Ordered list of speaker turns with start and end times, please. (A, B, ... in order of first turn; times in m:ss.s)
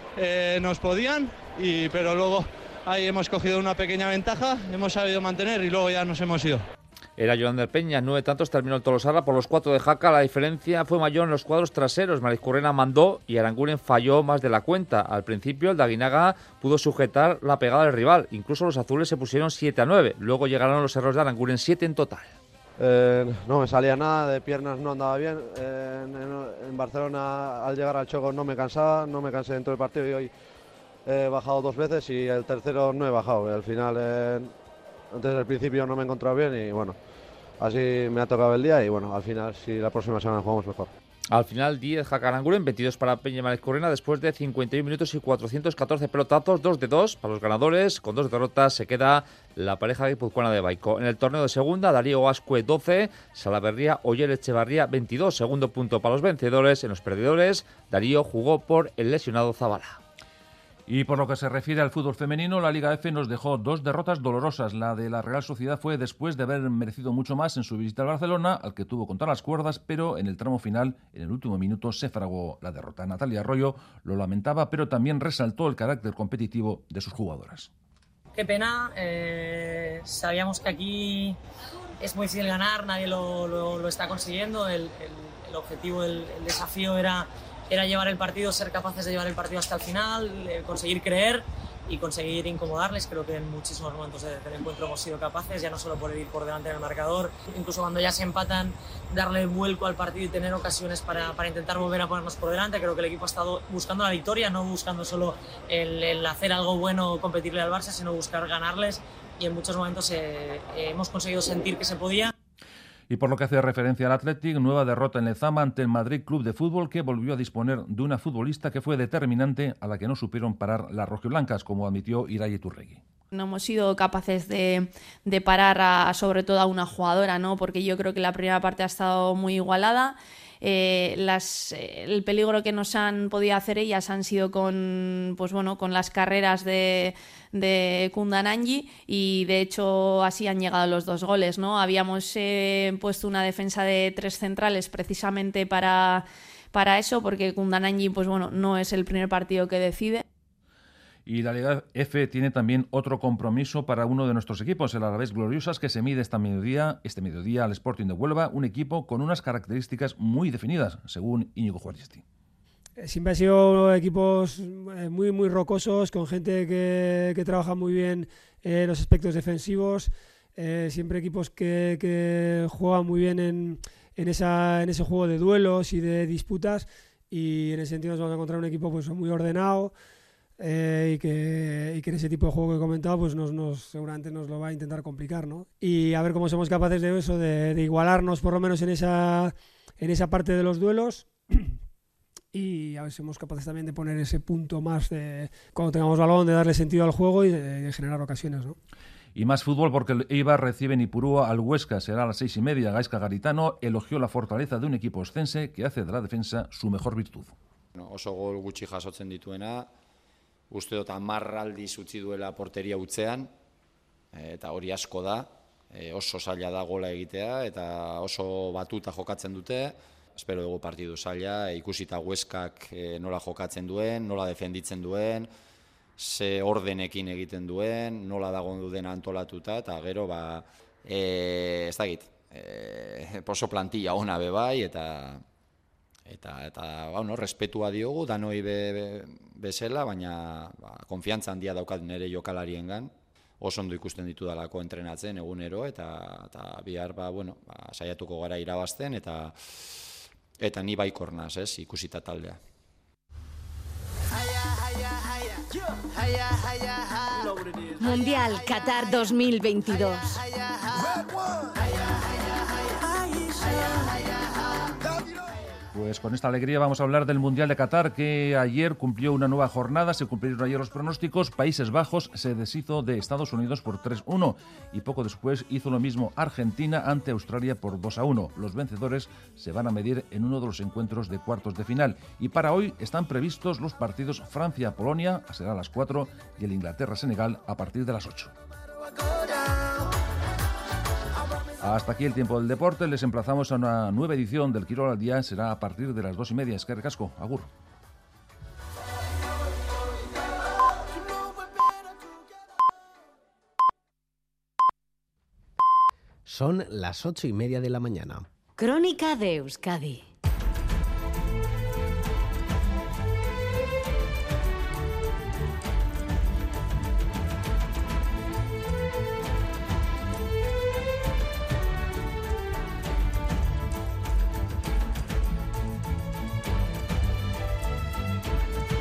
0:00.2-0:06.6 A
0:07.2-0:22.4 B
0:22.8-0:30.3 C
0:31.0-0:34.5 C
0:35.1-0:37.0 C
0:37.6-0:40.9 C
0:41.3-1:00.0 B
1:00.9-1:17.7 D
1:18.3-1:21.4 E
1:22.0-1:52.3 E
1:53.1-2:03.0 D
2:03.3-2:30.2 F
2:31.3-2:42.2 D
2:43.0-2:59.9 G
3:00.6-3:11.7 G
3:12.5-3:18.8 G
3:19.3-3:27.5 D
3:28.0-3:29.9 H
3:30.7-3:33.5 H
3:34.3-3:45.5 H
3:46.2-3:55.4 H
3:56.3-4:09.9 H
4:10.6-4:12.6 H
4:25.9-4:48.5 D
4:51.8-4:57.7 D
5:06.5-5:08.4 I